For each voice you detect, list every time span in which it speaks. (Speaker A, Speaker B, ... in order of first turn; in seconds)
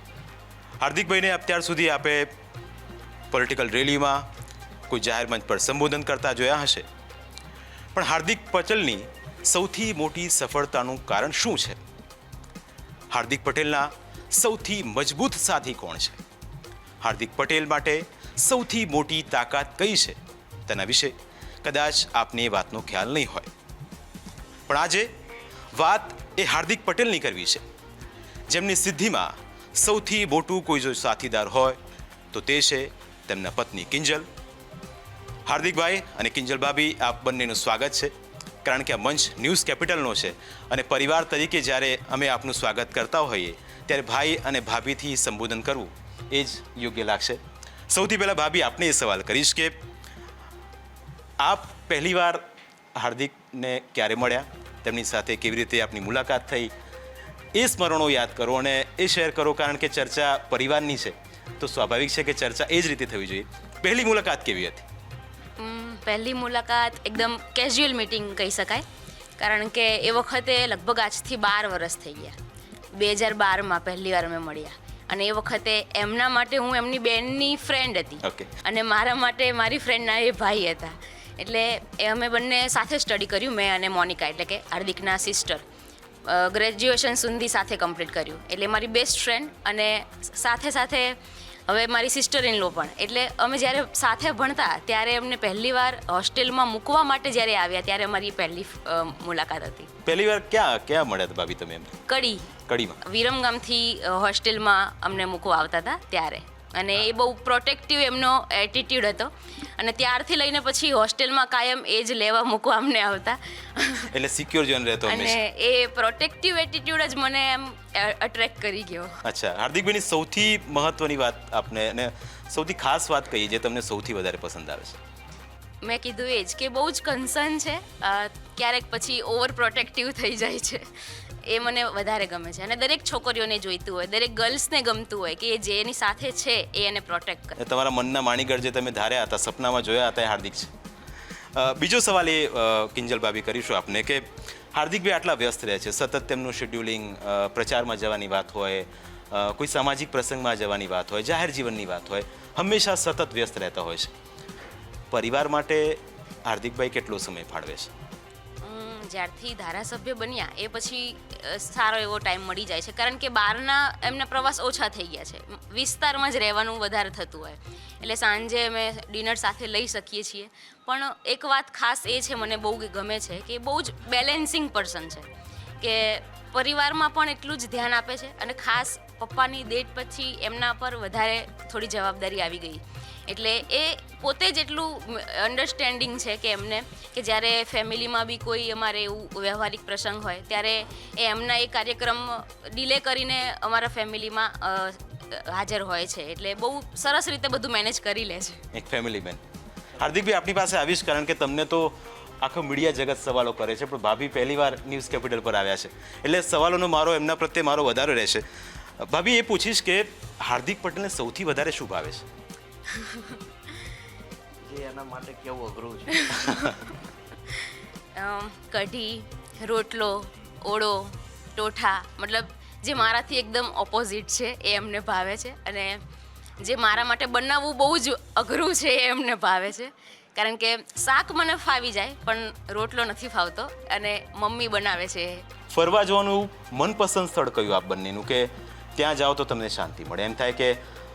Speaker A: 0.8-2.3, 3.3-4.3, 4.9-6.9, 8.0-11.8, 13.1-16.2, 17.0-23.5, 24.7-25.1, 25.7-27.6, 28.5-31.8, 32.3-34.3, 35.5-38.1, 38.6-49.8, 51.4-56.7, 57.5-64.9, 78.2-78.5, 100.0-102.0, 102.7-103.0, 114.1-115.4, 119.2-125.0, 137.6-140.7, 141.5-154.2, 155.1-157.9, 198.7-199.4, 200.0-208.4, 209.0-212.2, 235.7-240.8
Speaker B: 65.6-68.8, 69.4-72.4, 72.9-85.6, 86.2-99.9, 102.1-114.1, 115.1-119.2, 125.8-137.6, 158.6-175.3, 175.8-198.6, 212.9-213.4, 216.3-216.7, 217.5-226.0, 226.6-235.5
Speaker C: 214.6-216.7